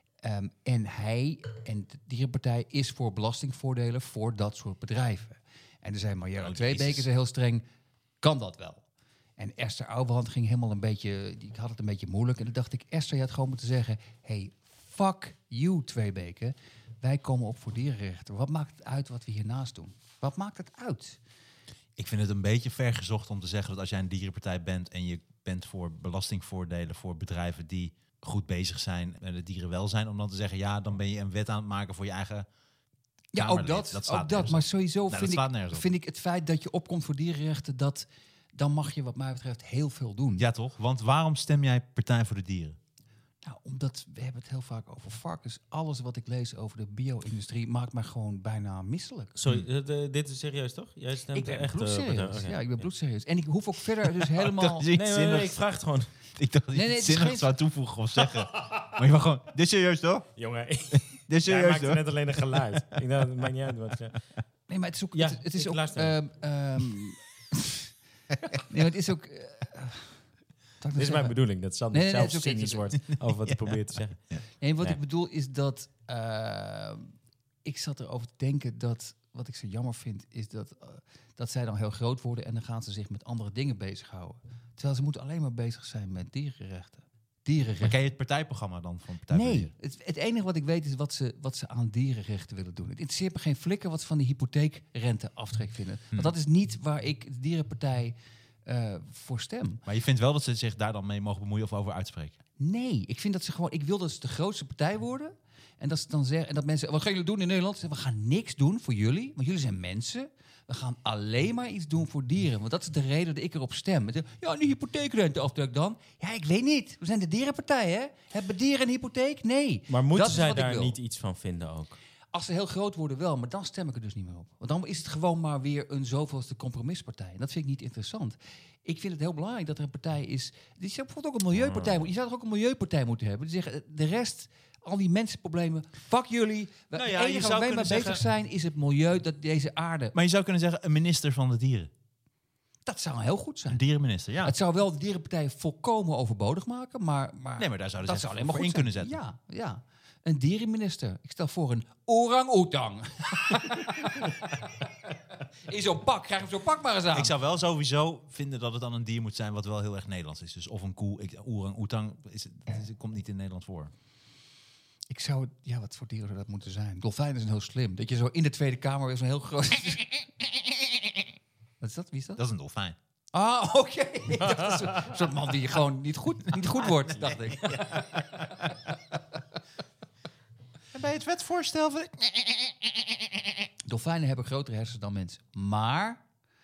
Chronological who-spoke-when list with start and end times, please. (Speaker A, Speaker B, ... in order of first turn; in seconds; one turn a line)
Speaker A: 0.2-7.6
Speaker B: 6.4-7.1
Speaker A: 8.2-8.8
Speaker A: 9.4-21.2
Speaker B: 22.0-32.5
Speaker A: 33.3-40.4
Speaker B: 33.4-35.9
Speaker B: 40.4-42.8
Speaker A: 43.4-49.3
Speaker C: 49.4-52.7
Speaker A: 51.3-54.9
Speaker B: 54.2-55.6
Speaker C: 54.9-56.1
Speaker B: 56.4-60.3
Speaker A: 56.7-57.5
Speaker C: 58.3-58.9
Speaker C: 60.4-64.2
Speaker B: 60.9-62.6
Speaker A: 64.7-67.9
Speaker C: 65.1-66.1
Speaker A: 68.5-70.2
Speaker A: 70.8-71.3
Speaker C: 71.0-74.2
Speaker A: 71.9-73.0
Speaker B: 73.5-73.8
Speaker A: 74.6-88.0
Speaker B: 87.8-89.7
Speaker A: 89.3-99.8
Speaker B: 99.8-102.4
Speaker A: 102.6-121.0
Speaker C: 119.9-122.0
Speaker A: 122.3-140.1
Speaker B: 137.0-138.1
Speaker C: 137.1-138.2
Speaker B: 140.1-141.9
Speaker A: 142.8-143.8
Speaker B: 143.7-144.5
Speaker A: 144.4-157.3
Speaker B: 147.6-149.2
Speaker B: 157.1-163.9
Speaker A: 165.1-170.2
Speaker A: 171.8-172.4
Speaker B: 172.4-173.0
Speaker A: 173.3-178.9
Speaker B: 177.5-178.0
Speaker B: 180.9-183.0
Speaker A: 183.8-186.2